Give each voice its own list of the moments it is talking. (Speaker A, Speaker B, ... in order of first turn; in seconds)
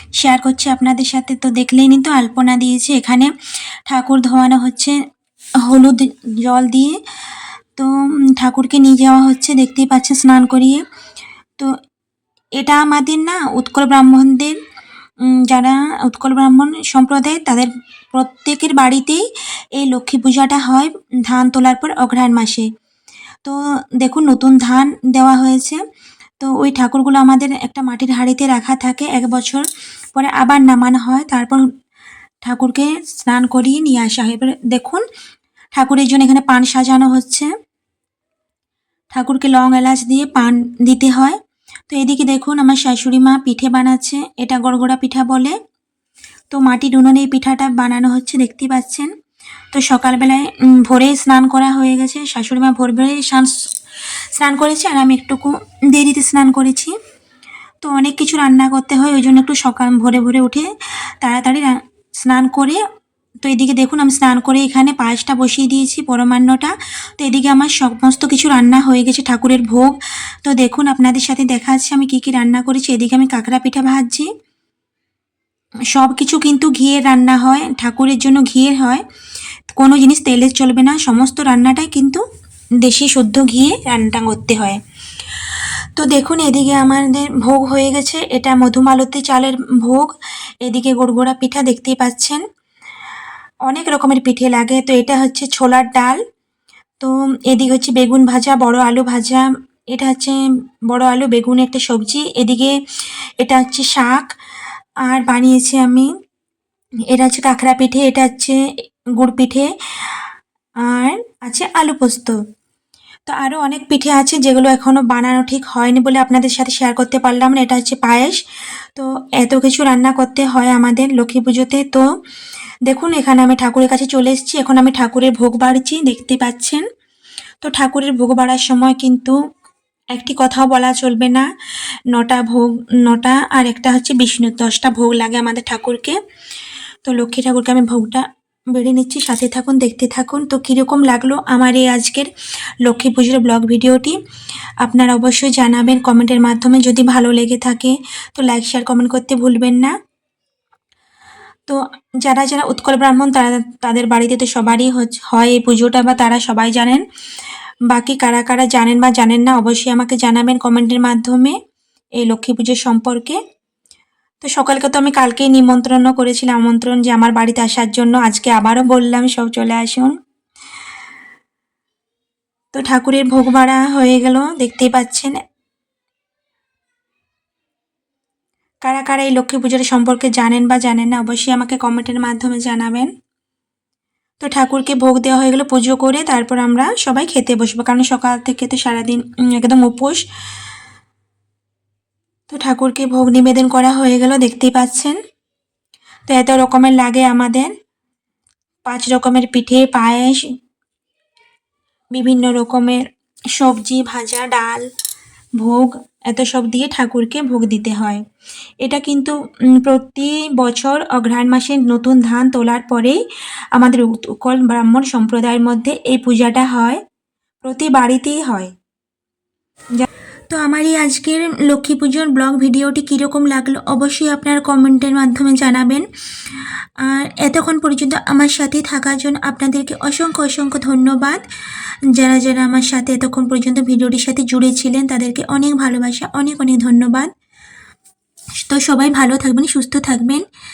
Speaker A: 0.2-3.3, 3.9-5.0, 5.7-7.0, 7.8-10.8, 12.6-14.6, 15.4-19.2, 19.8-22.7, 23.4-25.8, 26.4-31.7, 32.4-35.0, 35.8-37.5, 39.1-45.6, 46.5-49.1, 49.7-53.5, 54.3-56.9, 57.8-60.7, 61.2-62.8, 63.4-74.3, 75.9-79.0, 79.7-82.2, 82.8-84.8, 86.0-90.1, 90.7-92.4, 93.7-96.2, 97.0-100.4, 100.9-102.8, 103.4-104.3, 105.0-106.1, 107.1-108.6, 109.2-110.2, 110.8-112.4, 113.3-118.4, 119.0-122.0, 122.9-126.8, 127.6-129.4, 130.1-131.5, 132.1-136.2, 137.1-142.3, 142.8-144.2, 144.8-149.9, 151.7-157.0, 157.9-161.6, 162.2-163.4, 164.4-170.1, 172.7-175.3, 178.8-183.1, 184.4-190.2, 192.5-195.2, 196.3-197.7, 198.9-200.4, 202.2-203.0, 203.6-204.8, 205.6-208.2, 208.8-213.2, 213.8-217.0, 217.6-218.7, 220.0-226.1, 227.0-231.4, 232.1-237.3, 238.6-240.4